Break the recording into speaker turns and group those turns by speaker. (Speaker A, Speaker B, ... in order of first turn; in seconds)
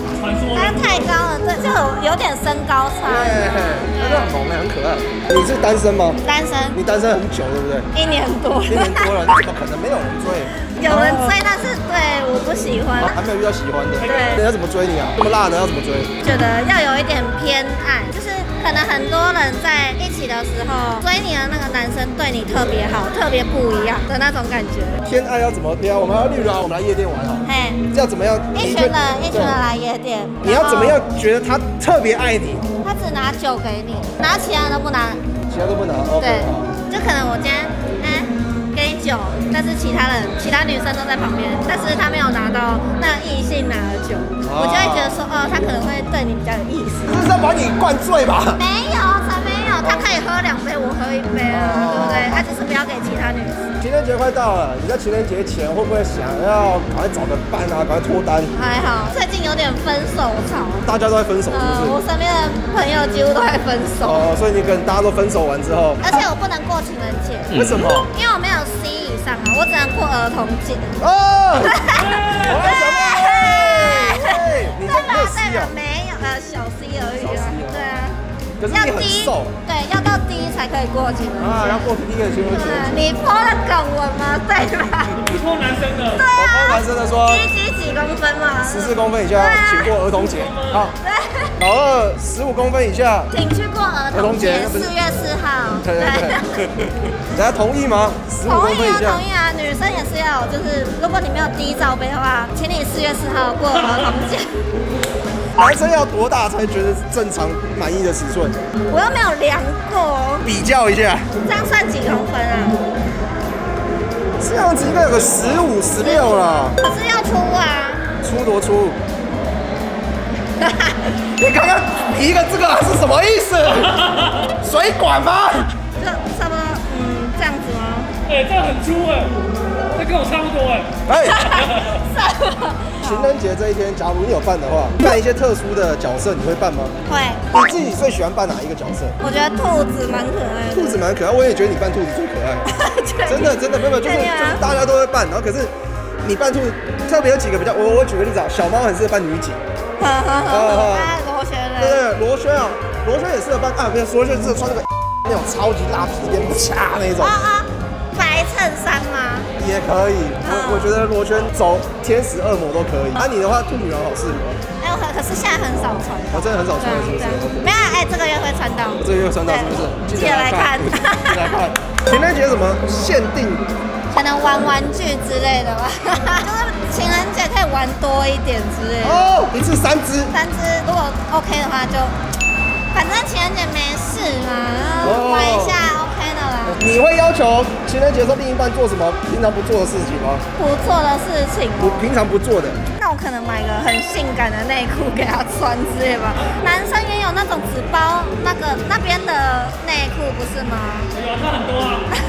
Speaker A: 0.1-1.1, 14.0-14.4, 72.1-72.5, 85.2-86.2, 90.2-90.9, 128.3-129.3, 129.9-131.0, 131.5-132.1, 201.2-202.1
Speaker B: 0.5-4.4, 6.2-6.8, 7.9-9.2, 10.7-13.2, 14.0-14.4, 16.2-25.0, 27.4-27.8, 28.5-31.0, 32.8-35.2, 36.2-47.2, 48.6-53.8, 58.5-60.9, 61.5-64.3, 66.0-71.0, 71.7-78.2, 78.7-81.9, 82.5-85.3, 86.1-90.0, 91.0-91.5, 93.3-96.7, 98.5-104.6, 108.9-110.5, 111.5-112.8, 116.0-118.1, 120.6-121.2, 126.0-128.1, 131.2-133.3, 137.1-137.5, 139.2-141.0, 142.7-144.6, 150.0-152.1, 157.2-159.5, 160.4-160.9, 164.8-171.6, 174.1-179.3, 180.3-182.1, 182.9-186.8, 190.6-192.1, 192.9-201.1
Speaker C: 3.1-6.2, 6.8-7.9, 8.7-11.4, 13.0-16.1, 25.0-29.6, 30.4-32.6, 35.5-36.7, 44.4-45.2, 47.1-48.6, 49.8-50.2, 51.5-52.5, 53.8-58.5, 60.8-62.0, 64.0-66.0, 67.5-68.1, 71.0-75.7, 77.2-77.8, 78.6-79.5, 81.4-83.0, 86.3-87.5, 88.6-91.0, 91.6-93.3, 94.1-94.9, 95.8-99.2, 105.6-108.6, 110.4-111.3, 114.4-116.8, 118.2-119.0, 121.4-125.7, 131.1-131.6, 133.0-137.0, 137.5-139.2, 140.7-142.7, 143.3-149.6, 150.5-151.2, 151.8-157.4, 159.6-164.6, 166.3-167.7, 169.0-173.7, 179.0-180.3, 185.0-185.8, 186.7-190.4, 191.8-192.8